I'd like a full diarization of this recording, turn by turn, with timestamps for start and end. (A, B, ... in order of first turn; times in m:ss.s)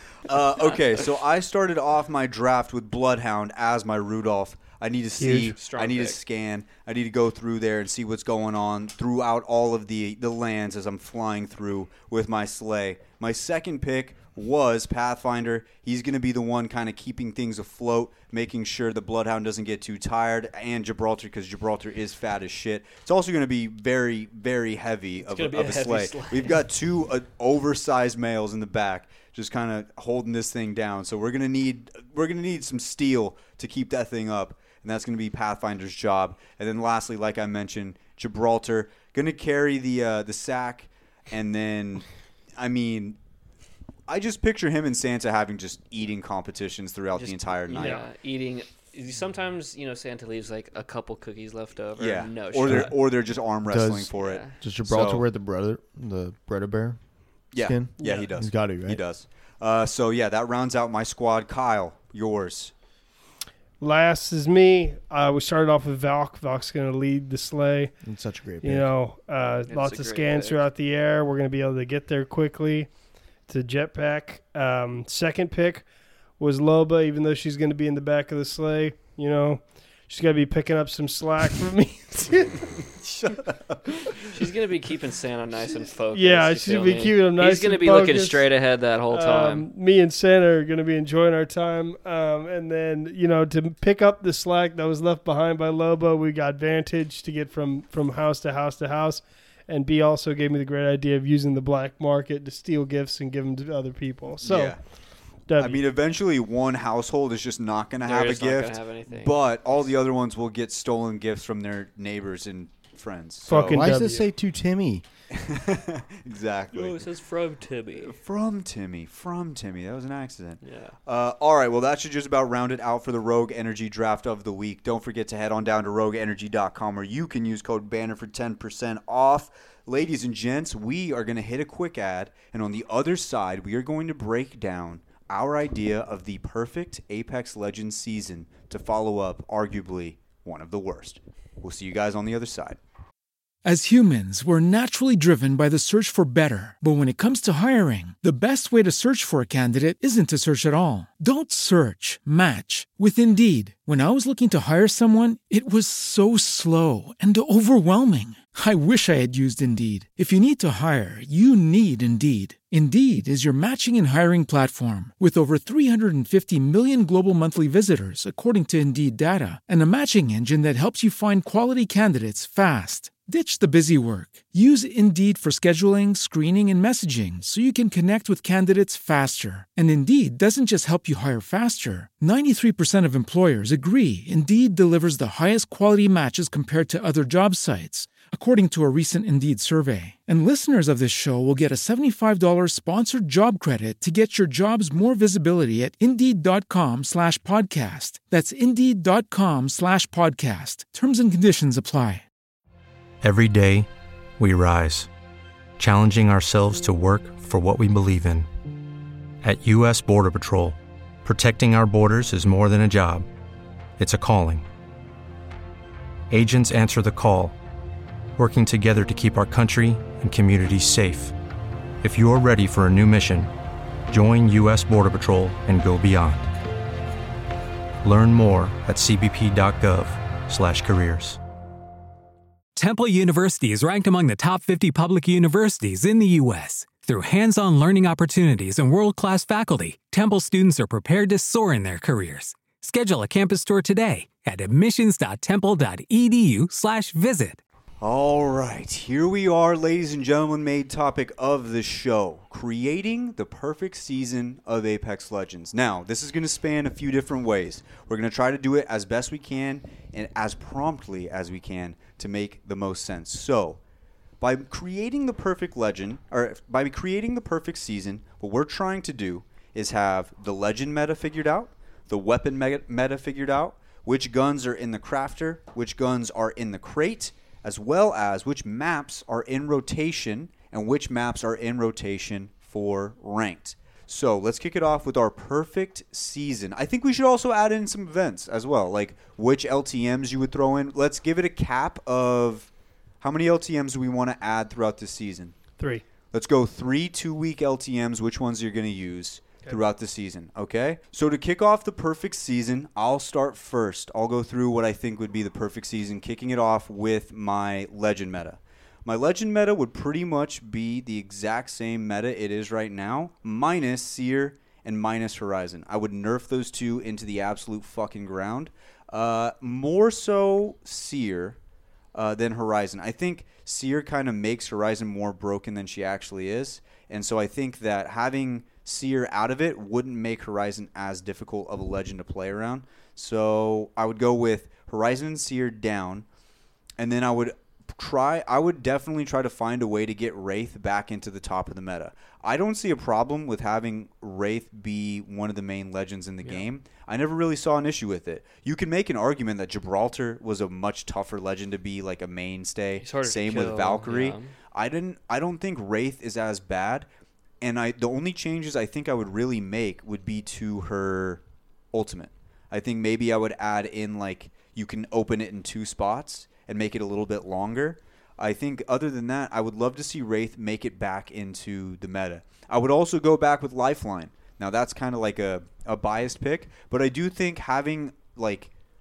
0:00.3-0:42.1 A
0:05.2-0:05.5 B
0:05.5-0:06.2 C
0:25.2-0:26.6 C
0:42.6-0:43.2 A
0:44.1-0:48.0 A
0:47.2-0:53.0 C
0:47.8-0:48.0 B
0:52.0-0:55.3 A
0:52.7-0:52.9 D
0:53.7-0:57.0 D
0:54.1-0:54.5 C
0:57.5-1:02.7 A
0:57.6-0:59.0 D
1:03.8-1:07.9 B
1:08.0-1:08.9 D
1:08.6-1:12.9 B
1:09.7-1:10.6 C
1:13.5-1:15.8 B
1:16.4-1:22.7 B
1:23.0-1:23.8 A
1:24.2-1:29.7 C
1:26.1-1:28.5 B
1:29.1-1:44.8 B
1:44.4-1:44.8 A
1:45.5-1:45.8 B
1:45.6-1:53.8 A
1:48.0-1:49.8 C
1:53.5-1:54.3 B
1:53.6-1:55.0 D
1:55.3-1:57.0 A
1:56.7-1:58.2 C
1:58.0-2:22.8 A
2:00.6-2:01.0 C
2:23.6-3:22.2 E
3:23.2-3:23.9 F
3:24.4-3:25.1 F
3:25.8-3:28.5 F
3:29.4-3:33.3 F
3:34.0-3:34.6 F
3:36.3-3:37.6 F
3:38.4-3:41.3 F
3:42.0-3:43.5 F
3:44.1-3:46.5 F
3:48.0-3:51.4 F
3:52.8-4:07.6 G
4:08.0-4:23.8 A
4:24.4-4:52.7 A
4:53.2-4:55.5 A
4:55.8-4:56.0 B
4:56.3-5:21.6 A
5:22.1-5:36.3 A
5:37.0-5:57.1 A
5:53.0-5:54.6 C
5:57.6-6:01.4 A
6:01.9-6:18.7 A